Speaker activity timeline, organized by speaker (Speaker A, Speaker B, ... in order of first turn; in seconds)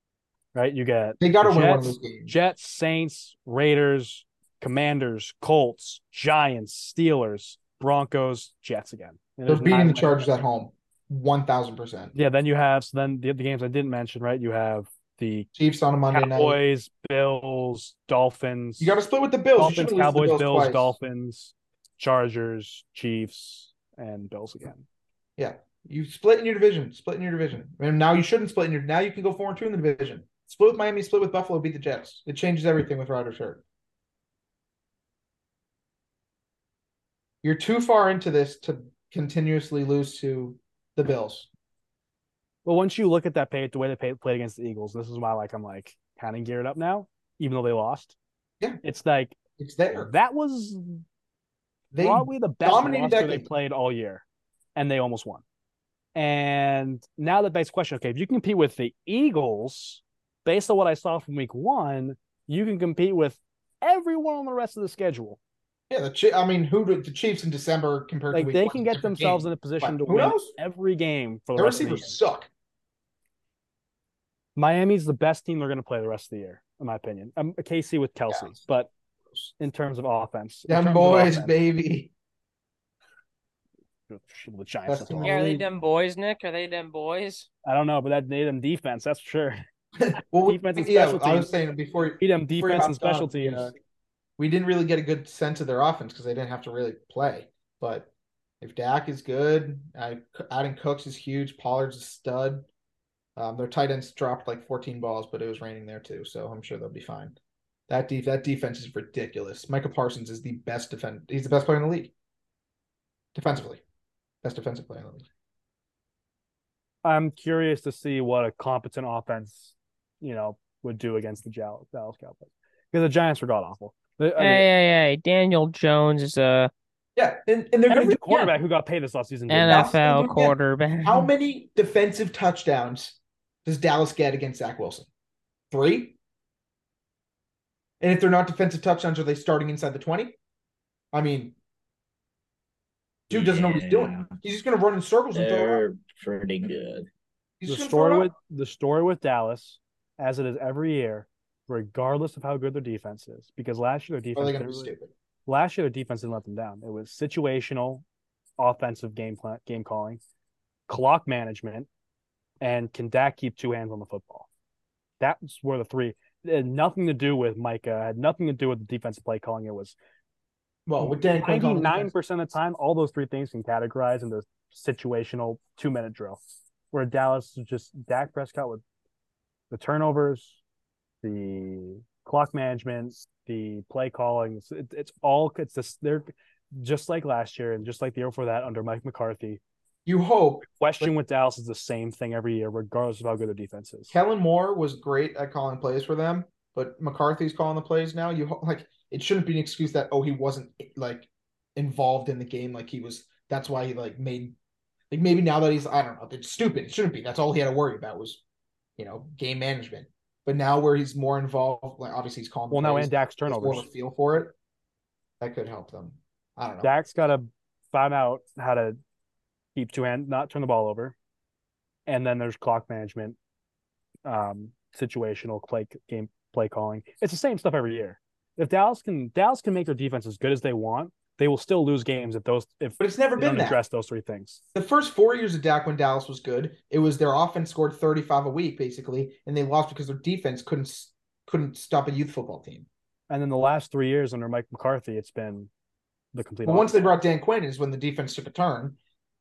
Speaker A: 0.5-10.3, 12.1-15.5, 16.1-19.0, 19.6-24.8, 42.6-48.1, 48.8-49.4, 49.9-51.0, 52.0-54.2, 54.7-55.4, 56.1-65.4, 68.3-72.2, 74.5-78.9, 79.6-81.5, 84.1-85.4, 87.6-89.6, 90.1-91.5, 92.2-93.7, 117.0-124.7, 127.9-130.0, 147.7-154.9, 155.5-158.0, 158.6-160.2, 160.9-161.9, 162.6-164.5, 165.2-169.9, 171.0-176.4, 176.9-178.8, 179.7-180.6, 181.2-189.6, 190.6-194.1, 212.7-213.9, 216.8-219.0, 219.7-221.1, 222.1-223.3, 224.2-234.6, 243.3-245.7, 246.3-247.1
Speaker B: 1.2-2.3, 9.5-12.1, 15.5-16.6, 18.8-20.9, 25.4-33.6, 37.4-41.5, 49.6-50.1, 51.9-53.5, 65.9-70.5, 71.5-72.5, 78.3-78.6, 80.7-82.1, 84.8-85.7, 90.0-93.7, 94.4-98.1, 98.6-102.7, 103.3-107.4, 107.9-112.1, 113.3-113.8, 114.4-115.3, 127.2-128.5, 129.7-135.1, 135.7-136.2, 138.0-140.4, 141.1-141.6, 143.3-145.8, 147.6-148.3, 154.3-155.1, 170.9-172.1, 190.1-191.1, 194.1-204.5, 205.1-208.4, 209.0-214.5, 215.4-216.9, 233.0-233.8, 234.7-242.9, 246.6-249.0
Speaker C: 85.2-87.5, 124.4-126.7, 129.5-131.3
Speaker D: 143.3-144.3, 145.3-147.1